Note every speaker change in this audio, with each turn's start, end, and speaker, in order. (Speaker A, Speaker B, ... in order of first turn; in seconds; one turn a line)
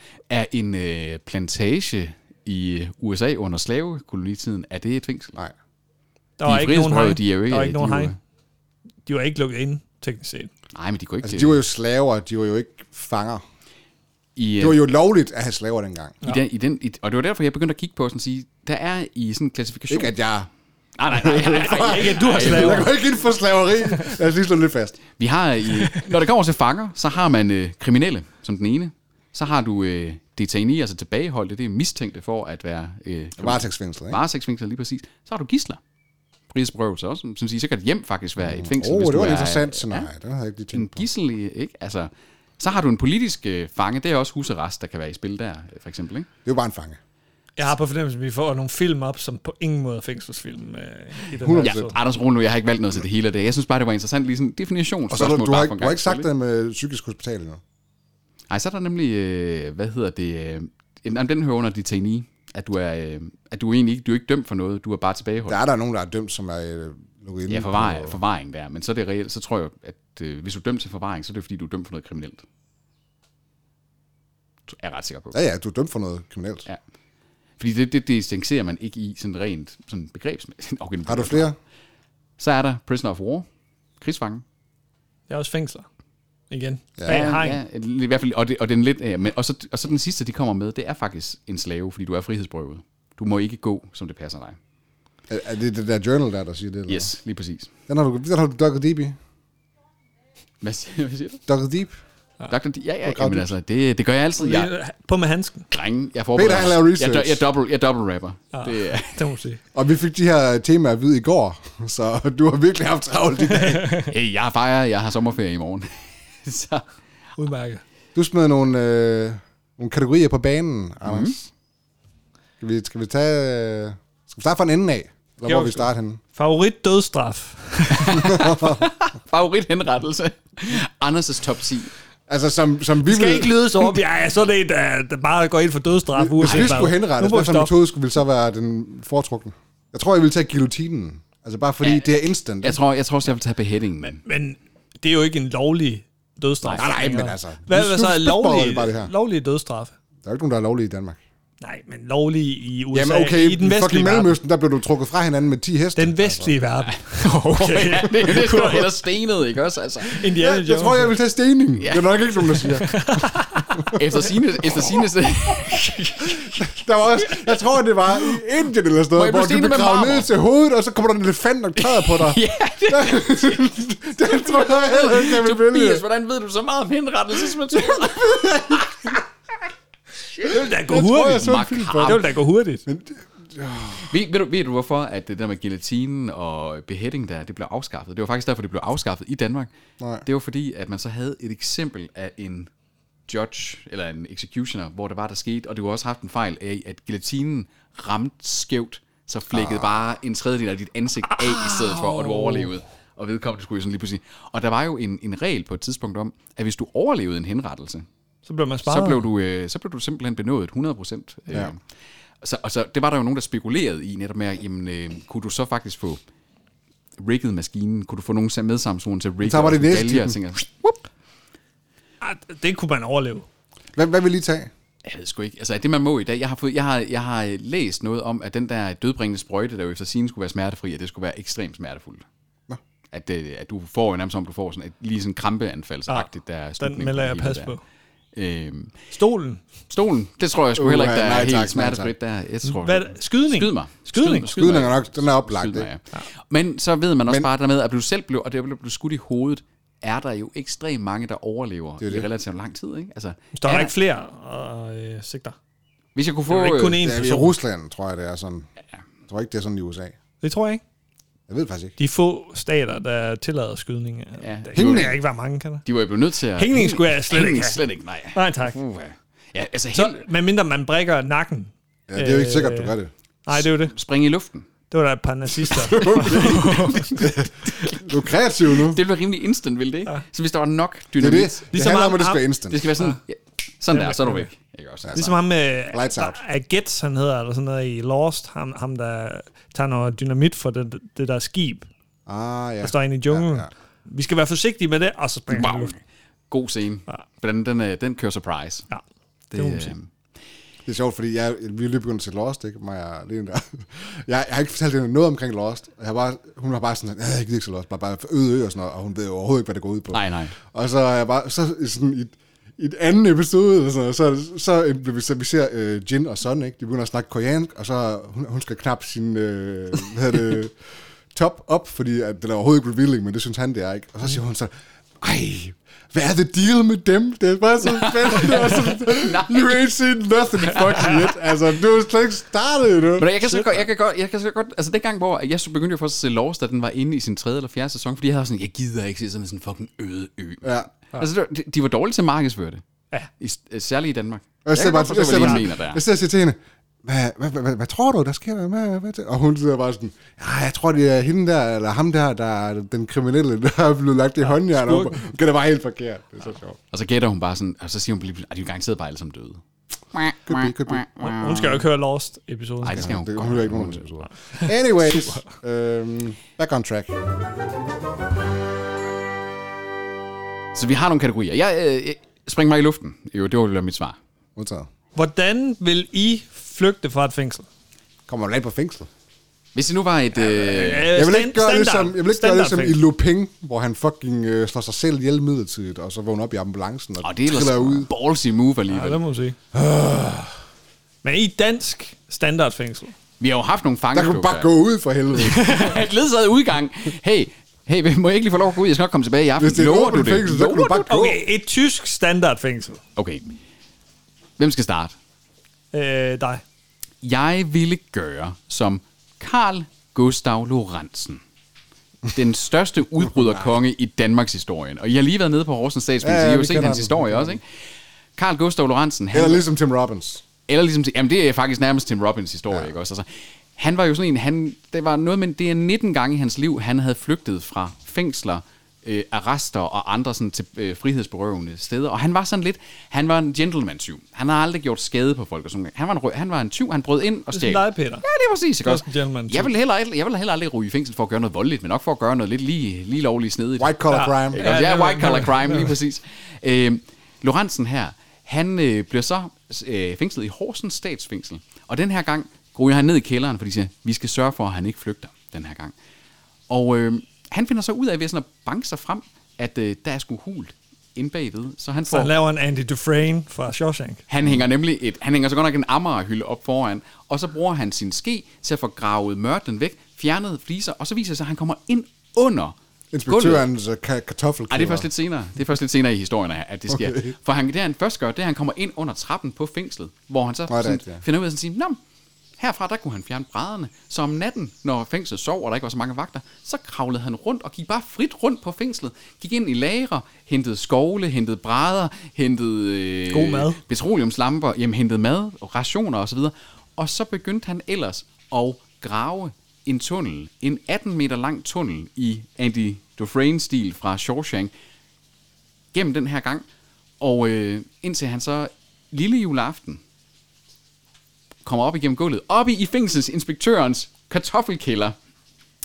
Speaker A: 0.3-5.3
Speaker B: 6.4-8.2
Speaker A: 6.5-8.2
Speaker B: 9.1-10.5
Speaker A: 10.7-11.6
Speaker C: 11.2-13.4
Speaker A: 14.4-14.8
Speaker C: 14.6-16.2
Speaker A: 16.2-20.1
Speaker C: 19.9-20.5
Speaker A: 21.0-22.9
Speaker C: 21.1-25.0
Speaker B: 21.7-22.9
Speaker A: 25.1-35.8
Speaker C: 33.4-34.2
Speaker A: 36.5-40.1
Speaker C: 38.4-41.0
Speaker A: 40.7-46.3
Speaker C: 46.5-47.0
Speaker B: 47.6-52.0
Speaker C: 51.4-52.0
Speaker A: 51.6-56.3
Speaker C: 55.1-57.6
Speaker A: 58.5-65.6
Speaker C: 65.5-68.2
Speaker A: 67.5-72.4
Speaker A: 74.7-75.3
Speaker C: 75.3-76.7
Speaker A: 77.6-81.5
Speaker C: 81.1-81.5
Speaker A: 82.4-83.5
Speaker A: 84.0-84.4
Speaker B: 85.3-85.9
Speaker B: 86.5-87.6
Speaker C: 87.0-87.2
Speaker A: 87.1-94.6
Speaker C: 95.3-97.1
Speaker A: 96.9-97.7
Speaker C: 97.9-99.2
Speaker A: 100.6-101.4
Speaker C: 101.5-101.9
Speaker A: 102.5-104.7
Speaker C: 103.0-103.5
Speaker B: 104.4-105.7
Speaker A: 105.7-109.2
Speaker C: 106.3-107.5
Speaker B: 108.5-109.6
Speaker C: 109.7-113.9
Speaker B: 113.5-114.1
Speaker A: 114.0-115.9
Speaker A: 116.4-116.8
Speaker B: 117.4-117.8
Speaker C: 118.2-121.5
Speaker A: 121.0-121.3
Speaker C: 122.6-126.2
Speaker B: 125.5-128.4
Speaker A: 128.0-131.9
Speaker C: 128.2-128.8
Speaker C: 132.3-133.5
Speaker B: 133.1-137.7
Speaker C: 136.2-142.8
Speaker A: 141.8-144.2
Speaker B: 144.3-149.9
Speaker C: 146.8-149.1
Speaker C: 150.2-151.2
Speaker B: 151.6-154.4
Speaker C: 152.9-156.5
Speaker B: 156.0-158.9
Speaker A: 156.9-160.3
Speaker B: 160.1-161.1
Speaker C: 160.4-163.2
Speaker A: 161.8-162.7
Speaker B: 162.8-163.9
Speaker C: 163.8-164.2
Speaker A: 163.9-166.6
Speaker C: 166.3-176.0
Speaker A: 169.2-170.3
Speaker A: 171.8-179.2
Speaker C: 177.7-179.2
Speaker B: 180.4-182.8
Speaker C: 180.4-182.2
Speaker A: 181.4-182.3
Speaker C: 182.9-184.1
Speaker A: 184.1-189.7
Speaker C: 190.0-190.2
Speaker A: 190.2-192.7
Speaker A: 193.3-208.1
Speaker C: 199.5-199.9
Speaker B: 201.9-202.7
Speaker B: 208.5-209.2
Speaker A: 208.9-211.8
Speaker A: 212.4-216.2
Speaker A: 217.2-221.0
Speaker C: 219.4-220.4
Speaker B: 222.2-223.5
Speaker C: 223.9-224.7
Speaker A: 225.0-232.2
Speaker A: 233.1-237.7
Speaker B: 236.1-237.8
Speaker A: 238.3-238.9
Speaker B: 239.1-239.6
Speaker A: 239.9-253.9
Speaker C: 240.8-242.1
Speaker B: 242.7-244.5
Speaker C: 244.5-245.9
Speaker C: 252.0-252.3
Speaker B: 253.6-255.6
Speaker A: 256.1-257.0
Speaker B: 256.5-257.6
Speaker C: 257.0-258.7
Speaker C: 259.3-260.1
Speaker B: 260.4-260.8
Speaker C: 261.5-261.9
Speaker B: 262.0-265.8
Speaker A: 264.4-265.2
Speaker C: 264.8-265.1
Speaker A: 265.9-270.2
Speaker B: 266.6-267.8
Speaker B: 268.3-268.8
Speaker B: 269.9-272.9
Speaker C: 272.1-273.1
Speaker B: 273.5-273.9
Speaker A: 273.6-274.7
Speaker B: 274.9-277.1
Speaker C: 275.7-279.0
Speaker A: 276.0-278.1
Speaker A: 278.7-281.6
Speaker C: 281.2-282.9
Speaker B: 281.7-282.4
Speaker A: 282.7-285.4
Speaker B: 283.9-284.5
Speaker B: 285.1-291.9
Speaker C: 285.9-286.4
Speaker C: 292.3-293.7
Speaker B: 292.8-295.9
Speaker A: 295.5-296.0
Speaker A: 296.5-298.9
Speaker A: 299.5-300.1
Speaker B: 299.5-299.9
Speaker C: 300.9-320.8
Speaker A: 310.1-310.6
Speaker C: 321.3-324.7
Speaker C: 325.2-333.3
Speaker A: 327.8-329.9
Speaker A: 330.6-331.4
Speaker A: 333.2-342.8
Speaker C: 340.6-340.9
Speaker A: 343.4-346.0
Speaker C: 344.6-356.8
Speaker B: 354.5-355.2
Speaker A: 356.9-359.6
Speaker A: 360.1-361.6
Speaker C: 360.4-361.0
Speaker B: 361.2-363.1
Speaker A: 362.8-364.1
Speaker C: 362.9-367.1
Speaker B: 364.3-365.4
Speaker A: 370.7-374.2
Speaker C: 374.6-374.9
Speaker B: 375.1-377.7
Speaker C: 378.3-379.1
Speaker A: 379.8-381.2
Speaker B: 380.4-383.1
Speaker C: 381.1-388.1
Speaker A: 387.2-389.2
Speaker B: 388.9-389.6
Speaker C: 389.7-390.6
Speaker B: 391.2-393.1
Speaker A: 393.4-394.7
Speaker C: 394.1-395.8
Speaker A: 395.3-401.1
Speaker B: 395.4-396.0
Speaker C: 399.6-401.4
Speaker B: 401.1-403.0
Speaker A: 403.2-403.6
Speaker A: 404.6-405.2
Speaker B: 405.9-406.6
Speaker A: 407.2-411.4
Speaker A: 412.3-417.6
Speaker C: 416.2-417.6
Speaker A: 418.4-419.6
Speaker C: 419.3-420.4
Speaker A: 420.7-444.0
Speaker B: 437.5-438.2
Speaker B: 438.8-439.7
Speaker C: 443.8-444.9
Speaker B: 444.1-445.9
Speaker A: 444.5-455.9
Speaker A: 456.7-462.3
Speaker B: 462.1-464.2
Speaker A: 464.3-472.8
Speaker C: 473.1-475.1
Speaker A: 473.3-473.6
Speaker A: 474.7-482.0
Speaker C: 476.9-477.3
Speaker C: 480.7-481.2
Speaker A: 482.6-504.7
Speaker B: 493.3-493.8
Speaker A: 505.9-506.7
Speaker A: 507.2-510.0
Speaker A: 511.6-515.1